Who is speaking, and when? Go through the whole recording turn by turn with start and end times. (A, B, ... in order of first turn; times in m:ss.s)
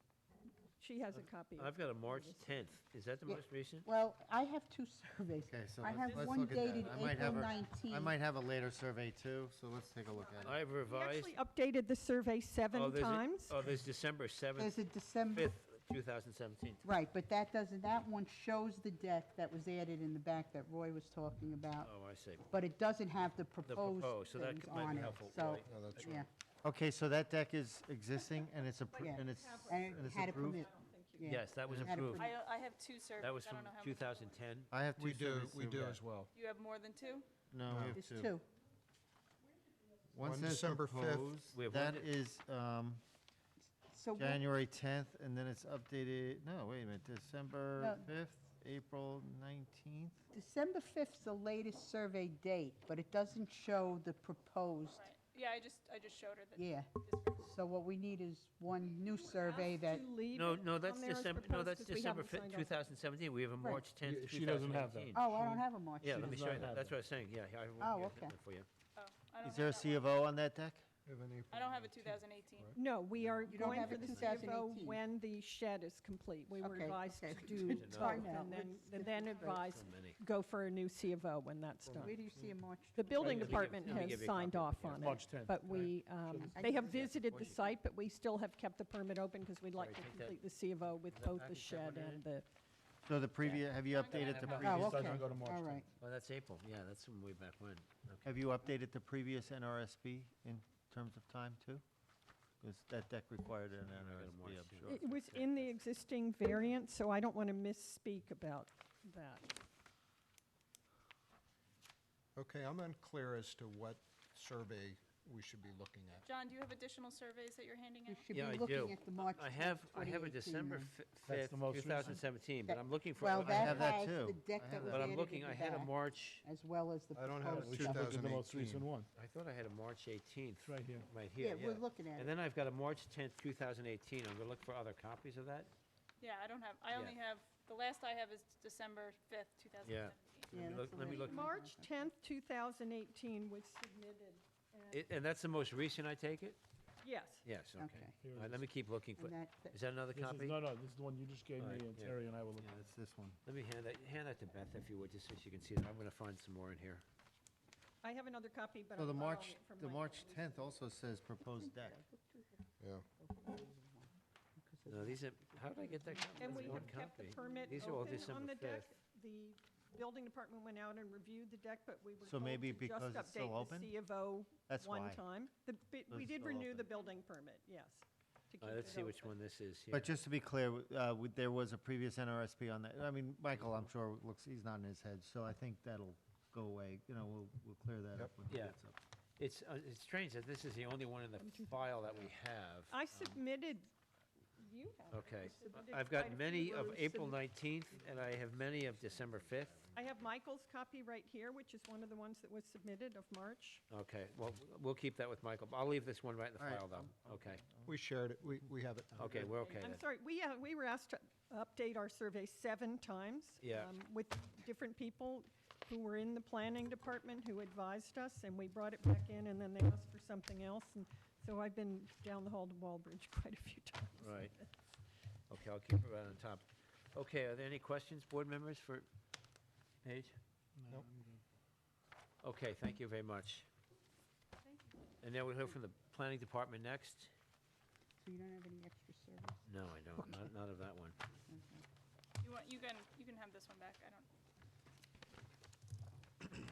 0:00.8-0:02.6 A
0:01.1-0:03.9 B
0:03.3-0:08.2 C
0:05.5-0:10.6 D
0:06.0-0:07.8 E
0:10.1-0:13.6 A
0:10.4-0:11.4 B
0:12.7-0:16.9 B
0:14.6-0:15.5 C
0:16.8-0:22.0 C
0:21.8-0:22.5 B
0:22.5-0:26.3 C
0:23.6-0:26.1 B
0:25.6-0:26.2 F
0:26.6-0:30.6 D
0:28.9-0:31.4 A
0:29.0-0:32.4 C
0:31.3-0:32.3 B
0:31.7-0:32.0 D
0:32.1-0:34.4 E
0:33.2-0:34.7 B
0:34.7-0:36.0 D
0:35.0-0:36.3 F
0:36.3-0:37.2 E
0:37.5-0:38.3 D
0:37.6-0:38.0 F
0:37.9-0:38.4 C
0:40.1-0:43.0 D
0:40.2-0:41.3 F
0:41.5-0:42.1 B
0:43.9-0:44.4 C
0:44.1-0:50.2 D
0:47.8-0:48.1 C
0:50.3-0:55.1 C
0:54.9-0:57.6 E
0:56.6-1:00.1 C
0:59.1-0:59.7 E
0:59.2-1:02.8 A
1:00.3-1:05.2 B
1:03.6-1:03.8 C
1:04.0-1:06.9 G
1:05.1-1:06.2 C
1:06.0-1:08.7 B
1:07.8-1:08.3 C
1:09.0-1:10.1 E
1:09.4-1:10.8 D
1:11.0-1:12.8 F
1:11.5-1:12.8 E
1:12.7-1:22.2 A
1:13.2-1:14.5 B
1:13.5-1:15.0 C
1:16.6-1:19.6 C
1:17.6-1:18.3 B
1:19.5-1:20.2 B
1:21.8-1:22.2 F
1:22.0-1:23.8 C
1:22.9-1:32.5 A
1:23.2-1:25.3 B
1:25.0-1:26.5 G
1:26.5-1:27.1 C
1:26.8-1:27.8 B
1:29.8-1:30.4 B
1:31.1-1:32.3 B
1:33.0-1:35.1 D
1:33.4-1:35.0 B
1:33.9-1:35.2 E
1:34.6-1:35.8 C
1:34.9-1:35.8 G
1:36.0-1:38.4 B
1:38.2-1:41.8 D
1:42.6-1:45.7 D
1:43.9-1:45.0 B
1:44.8-1:49.5 A
1:52.4-1:56.3 F
1:56.2-1:58.2 E
1:58.1-2:01.0 C
1:58.3-2:04.0 B
2:01.2-2:02.2 G
2:02.6-2:08.3 C
2:03.4-2:05.2 D
2:04.8-2:06.4 B
2:07.1-2:08.9 F
2:07.4-2:09.1 G
2:09.1-2:15.7 B
2:10.6-2:11.1 G
2:11.4-2:12.4 C
2:16.2-2:20.6 E
2:16.9-2:17.2 B
2:19.8-2:21.4 B
2:20.5-2:22.1 C
2:21.0-2:25.1 A
2:24.9-2:26.6 B
2:27.0-2:27.4 A
2:27.4-2:30.6 B
2:27.8-2:28.2 C
2:28.2-2:28.5 G
2:29.2-2:29.8 C
2:30.1-2:32.7 G
2:31.6-2:32.2 B
2:32.6-2:33.4 D
2:33.4-2:37.0 B
2:38.0-2:40.8 A
2:39.0-2:42.0 D
2:41.4-2:42.6 C
2:42.8-2:43.0 F
2:43.2-2:48.4 C
2:44.9-2:48.9 B
2:46.4-2:59.4 A
2:52.2-2:53.9 D
2:54.7-2:55.2 D
2:56.1-2:56.9 D
2:58.6-3:00.1 B
2:59.9-3:09.0 D
3:03.5-3:03.9 B
3:08.5-3:08.8 B
3:09.4-3:13.4 B
3:12.9-3:13.9 A
3:14.6-3:17.1 A
3:15.1-3:19.9 B
3:16.6-3:17.4 C
3:19.9-3:23.8 A
3:23.9-3:27.6 B
3:26.6-3:28.0 D
3:27.8-3:29.6 F
3:29.1-3:30.0 B
3:29.6-3:44.5 A
3:33.6-3:33.9 B
3:44.2-3:44.6 B
3:45.5-3:49.1 B
3:50.0-3:50.4 B
3:50.8-3:51.4 G
3:52.4-3:53.7 B
3:55.2-3:57.3 B
3:58.2-3:59.6 C
3:59.6-4:01.2 B
4:00.2-4:00.5 C
4:01.5-4:01.8 C
4:02.4-4:04.3 E